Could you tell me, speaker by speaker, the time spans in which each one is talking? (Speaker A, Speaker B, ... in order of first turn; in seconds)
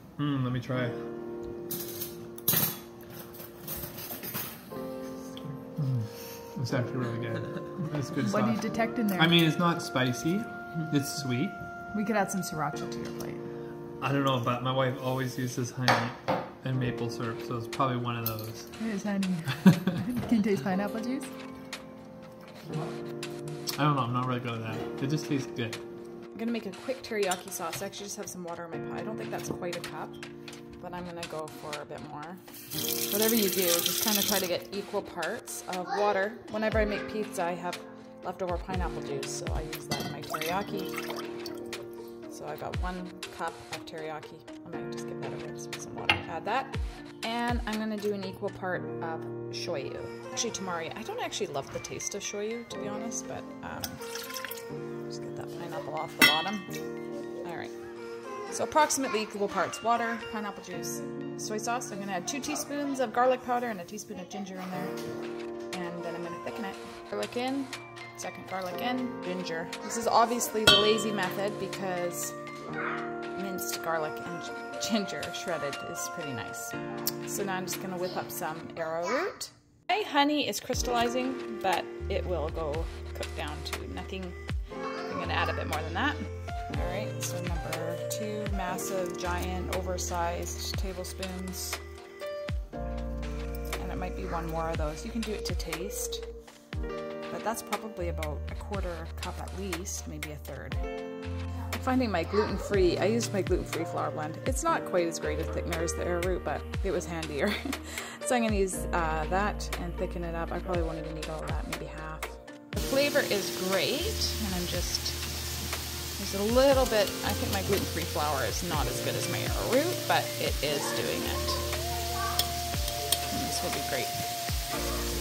Speaker A: 0.2-1.0, 5.8-11.6, 14.0-18.8, 23.8-25.8
Speaker B: 8.3-9.3, 11.9-13.5, 18.8-21.3
Speaker C: 26.3-30.2, 30.8-32.4, 33.1-41.0, 42.3-54.1, 55.1-56.8, 57.4-65.0, 65.7-72.4, 73.3-84.4, 85.0-91.8, 93.7-96.2, 97.3-100.9, 101.6-115.3, 116.2-121.8, 123.3-124.3